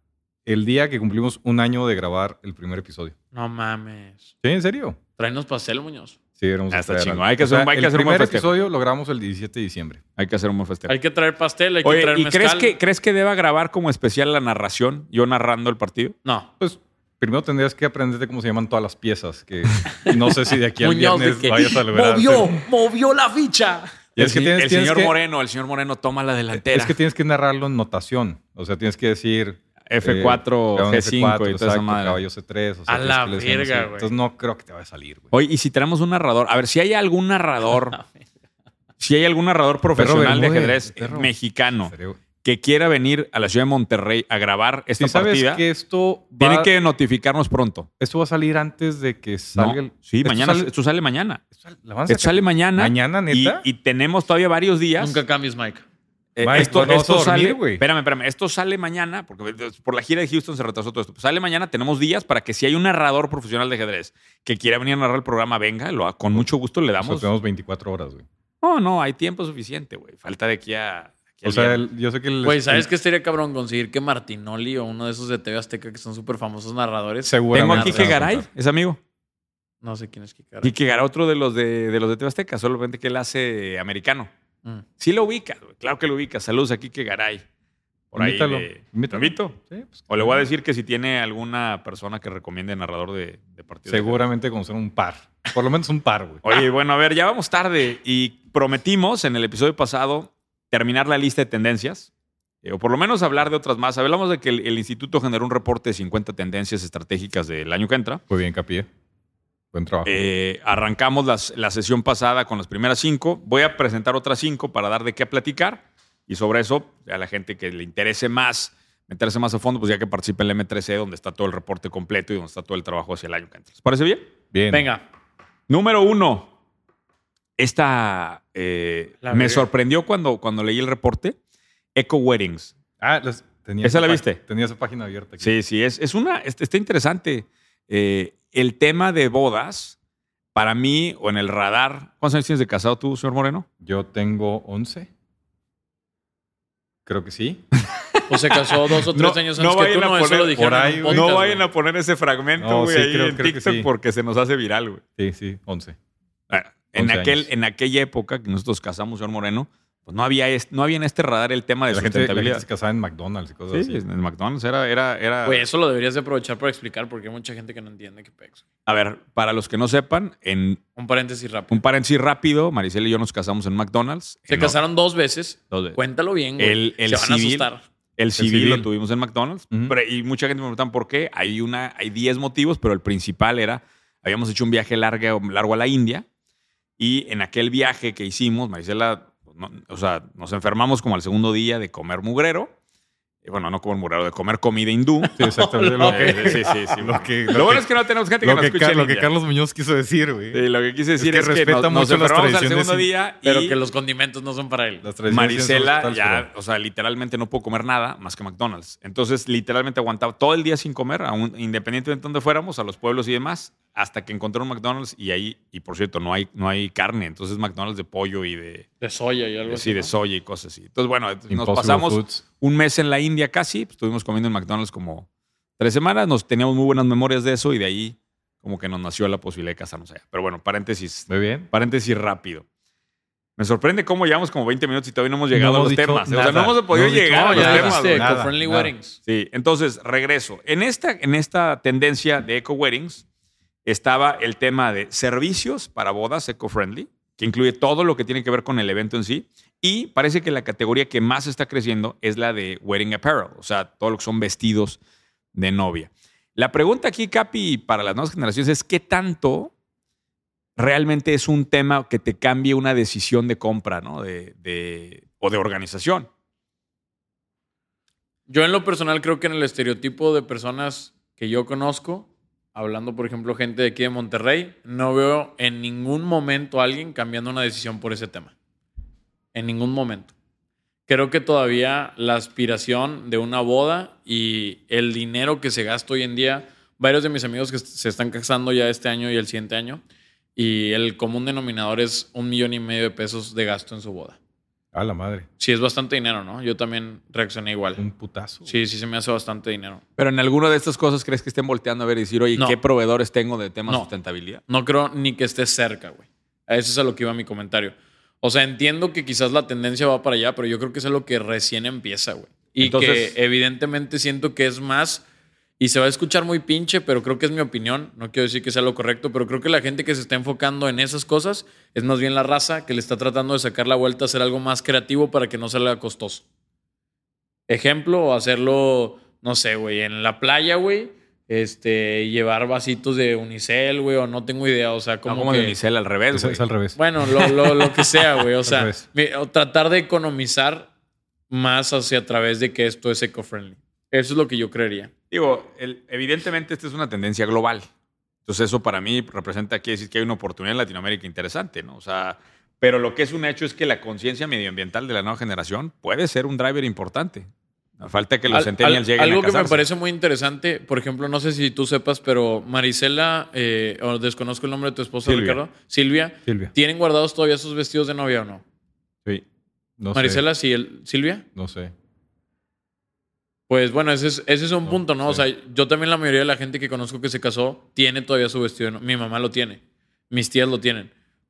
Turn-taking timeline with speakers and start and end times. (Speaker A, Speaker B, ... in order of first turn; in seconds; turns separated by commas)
Speaker A: 0.5-3.1, Speaker B: 3.3-4.3, Speaker A: 4.4-5.0, Speaker B: 5.2-6.2, Speaker A: 6.4-10.0, Speaker C: 6.7-8.5, Speaker C: 10.2-10.9, Speaker B: 10.9-12.7, Speaker C: 11.8-16.1, Speaker B: 16.2-16.5, Speaker A: 16.6-22.6, Speaker B: 20.8-23.9, Speaker C: 24.1-27.0, Speaker A: 24.2-25.1, Speaker A: 26.5-35.3, Speaker C: 29.9-32.2, Speaker B: 32.9-34.1, Speaker C: 35.3-38.0, Speaker C: 39.0-45.6, Speaker A: 39.9-42.2, Speaker A: 45.0-46.7, Speaker C: 46.4-47.9, Speaker A: 48.0-50.7, Speaker C: 49.5-51.4, Speaker A: 51.5-53.6, Speaker C: 52.1-55.2, Speaker B: 55.0-55.8, Speaker C: 56.4-67.3, Speaker A: 56.4-57.8, Speaker A: 67.0-68.2, Speaker C: 68.6-71.8, Speaker A: 71.4-72.9, Speaker B: 72.4-78.2, Speaker A: 77.2-78.5, Speaker C: 77.5-79.0, Speaker B: 79.8-80.7, Speaker C: 80.6-84.3, Speaker C: 85.0-87.4, Speaker C: 88.1-89.5, Speaker A: 88.1-90.5, Speaker C: 90.1-94.2, Speaker A: 93.9-96.4, Speaker C: 96.4-102.1, Speaker C: 102.6-108.2, Speaker A: 108.3-108.9, Speaker A: 109.7-110.2, Speaker C: 110.0-124.2, Speaker A: 124.5-124.9, Speaker B: 124.7-125.0, Speaker C: 125.7-126.5, Speaker C: 127.6-131.4, Speaker B: 129.2-129.7, Speaker C: 131.9-132.7, Speaker A: 133.0-135.5, Speaker C: 133.8-134.4, Speaker C: 135.4-139.9, Speaker C: 140.5-143.7, Speaker A: 143.8-145.1, Speaker A: 147.1-147.6, Speaker C: 147.8-155.0, Speaker B: 148.3-151.6, Speaker A: 150.5-151.3, Speaker A: 152.6-153.9, Speaker A: 155.2-155.9, Speaker C: 156.5-162.6, Speaker A: 156.9-157.5, Speaker A: 161.9-164.0, Speaker C: 163.7-165.7, Speaker B: 165.4-168.6, Speaker C: 168.8-170.8, Speaker B: 170.9-171.8, Speaker C: 171.7-174.8, Speaker B: 174.5-177.8, Speaker C: 175.7-176.0, Speaker C: 176.6-186.2, Speaker A: 178.4-178.9, Speaker C: 187.0-192.7, Speaker C: 193.4-195.3, Speaker B: 195.3-196.9, Speaker A: 195.4-197.9, Speaker C: 196.0-199.3, Speaker A: 198.4-200.6, Speaker C: 200.5-203.8, Speaker A: 201.2-203.1, Speaker B: 203.4-205.0, Speaker A: 205.0-206.5, Speaker C: 205.3-218.9, Speaker B: 219.0-220.1, Speaker C: 219.7-225.2, Speaker A: 221.5-222.4, Speaker C: 225.8-232.6, Speaker A: 231.3-231.7, Speaker C: 233.6-238.3, Speaker A: 235.5-238.9, Speaker B: 237.3-239.2, Speaker C: 239.2-243.2, Speaker C: 243.8-255.0, Speaker C: 255.5-259.7, Speaker C: 260.8-266.3, Speaker B: 268.5-278.5, Speaker B: 279.5-280.3, Speaker B: 281.1-290.0, Speaker B: 290.6-294.4, Speaker A: 294.9-295.5, Speaker B: 295.6-298.0, Speaker A: 298.0-298.7, Speaker B: 298.6-300.0, Speaker C: 300.2-304.6, Speaker B: 304.7-315.2, Speaker C: 312.8-313.4, Speaker B: 315.8-326.4, Speaker B: 327.7-335.8, Speaker C: 335.2-336.6, Speaker A: 336.3-337.0, Speaker B: 336.9-340.9, Speaker C: 337.3-338.2, Speaker A: 338.6-339.0, Speaker B: 341.5-345.1, Speaker C: 345.3-347.9, Speaker C: 348.4-357.5, Speaker C: 358.0-359.8, Speaker B: 358.5-368.6, Speaker C: 365.2-365.6, Speaker A: 366.4-366.7, Speaker A: 370.0-370.4, Speaker B: 370.1-371.4, Speaker A: 371.5-371.9, Speaker B: 373.7-381.1, Speaker A: 374.8-375.4